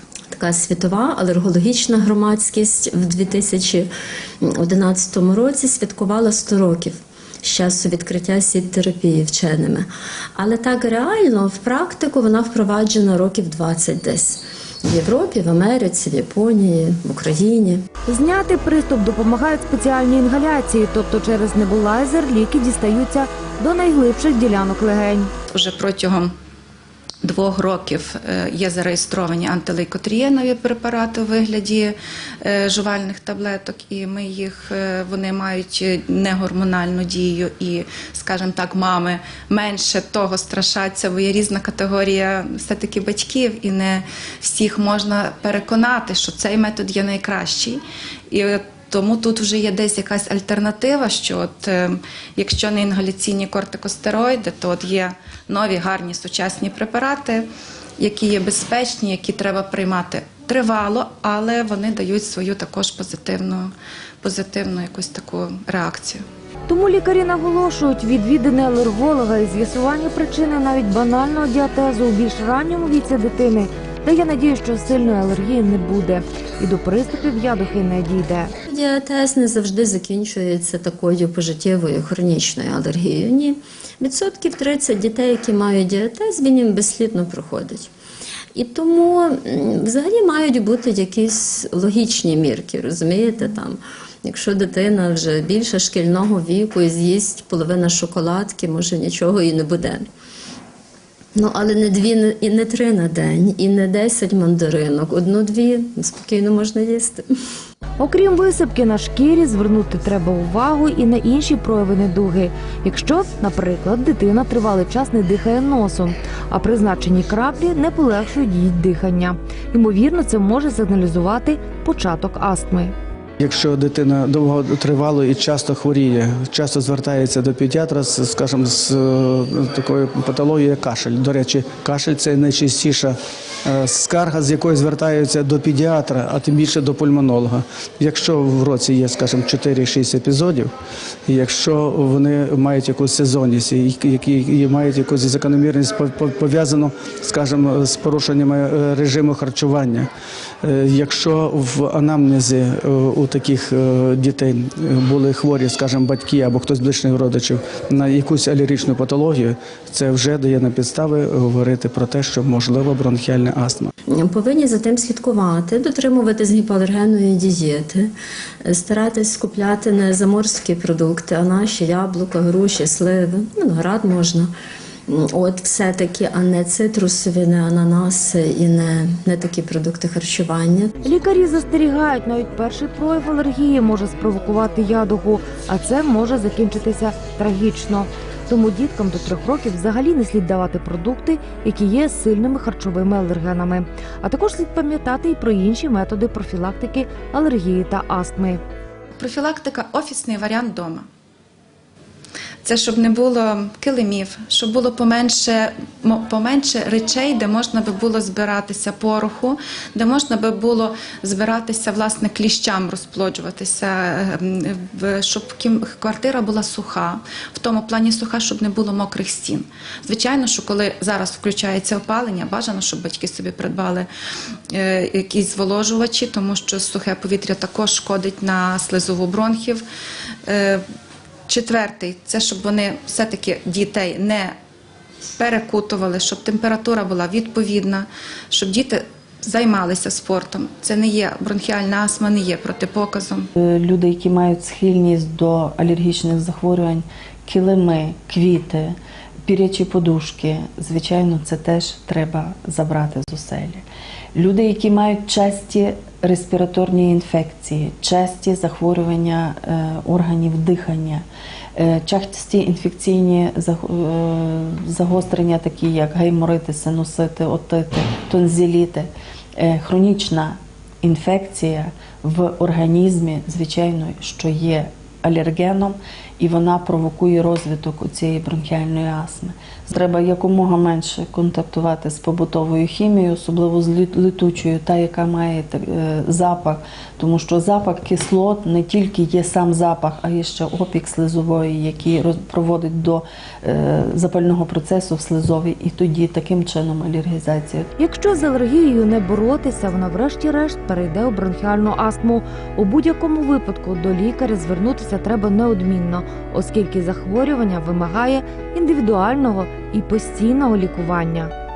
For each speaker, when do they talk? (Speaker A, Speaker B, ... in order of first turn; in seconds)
Speaker A: 0.3-3.9, 4.4-17.9, 78.7-87.9, 88.5-100.1, 101.4-107.2, 164.1-168.1, 168.7-174.5, 175.1-180.9
Speaker B: 18.1-25.3, 66.7-78.5, 108.0-122.9, 181.0-198.6, 298.0-311.5
Speaker C: 25.5-26.3, 27.2-57.5, 58.0-66.2, 199.2-201.1, 202.6-224.1, 224.7-229.8, 230.5-230.8, 231.5-234.5, 235.4-243.5
Speaker D: 123.4-140.7, 141.3-150.1, 150.6-163.9
Speaker E: 243.6-253.8, 254.3-261.2, 261.8-297.9